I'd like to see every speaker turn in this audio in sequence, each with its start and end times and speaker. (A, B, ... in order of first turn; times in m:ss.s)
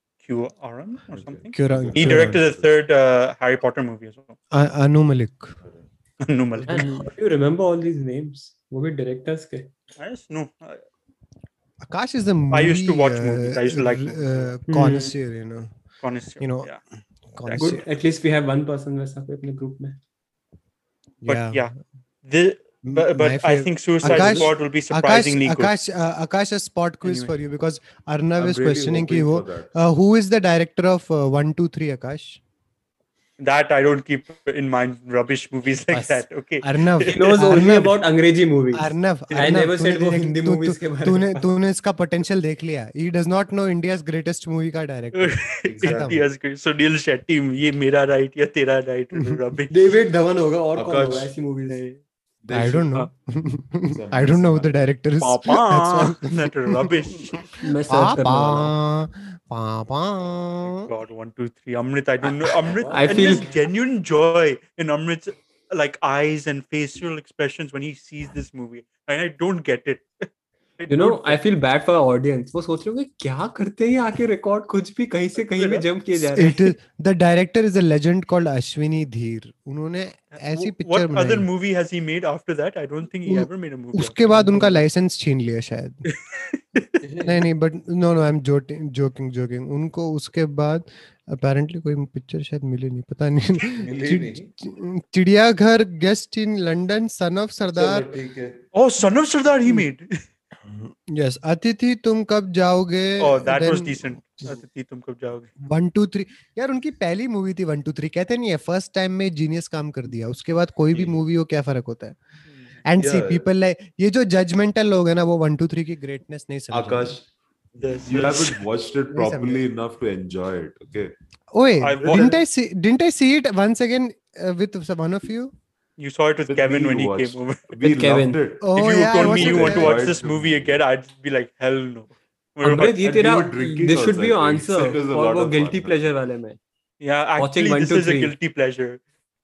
0:00.2-0:04.4 A
0:01.1-0:02.7 B
0:01.5-0:02.4 C
0:04.5-0:05.6 C
0:06.2-0:07.1 A
0:06.6-0:07.0 C
0:06.7-0:09.7 D
0:10.0-0:10.8 A
0:11.8-0:15.7 C
0:12.5-0:14.5 A
0:14.7-0:15.1 D
0:16.0-0:16.8 A
0:16.4-0:16.7 C
0:17.3-0:17.8 C
0:17.4-0:17.8 A
0:17.6-0:20.0 D
0:21.2-0:21.7 C
0:21.3-0:21.7 A
0:22.2-0:25.7 A
0:22.8-0:32.4 C
0:24.0-0:24.5 B
0:27.0-0:27.3 A
0:28.4-0:29.7 B
0:33.4-0:37.2 A
0:35.9-0:38.0 C
0:37.1-0:41.4 D
0:38.7-0:46.2 C
0:39.3-0:39.6 A
0:45.1-0:49.7 A
0:45.7-0:46.2 B
0:49.7-0:51.8 D
0:50.8-0:51.3 B
0:51.7-0:52.0 A
0:52.4-0:52.9 B
0:52.5-1:00.9 C
0:53.9-0:54.8 B
0:55.2-0:57.4 A
0:57.6-0:58.7 D
1:00.6-1:10.3 A
1:02.8-1:03.5 D
1:02.8-1:03.4 B
1:10.8-1:11.4 A
1:10.9-1:16.7 D
1:15.4-1:15.9 A
1:16.3-1:21.5 C
1:20.4-1:24.7 A
1:23.3-1:26.0 C
1:26.1-1:27.0 A
1:27.0-1:27.4 B
1:27.2-1:38.1 C
1:33.7-1:34.5 B
1:37.7-1:38.6 B
1:38.7-1:40.2 A
1:40.7-1:44.6 C
1:43.2-1:45.5 A
1:45.6-1:52.2 C
1:50.9-1:51.2 B
1:52.8-1:57.2 C
1:53.0-1:53.5 B
1:56.7-1:57.3 B
1:57.8-2:01.1 B
1:57.8-1:58.6 A
1:59.1-1:59.6 C
2:01.5-2:05.5 C
2:01.8-2:02.4 A
2:02.0-2:02.3 B
2:06.0-2:07.8 A
2:06.5-2:10.8 B
2:07.9-2:08.4 D
2:08.6-2:10.2 C
2:08.8-2:13.0 A
2:12.6-2:16.6 D
2:13.0-2:16.0 B
2:17.0-2:19.0 A
2:17.4-2:18.3 D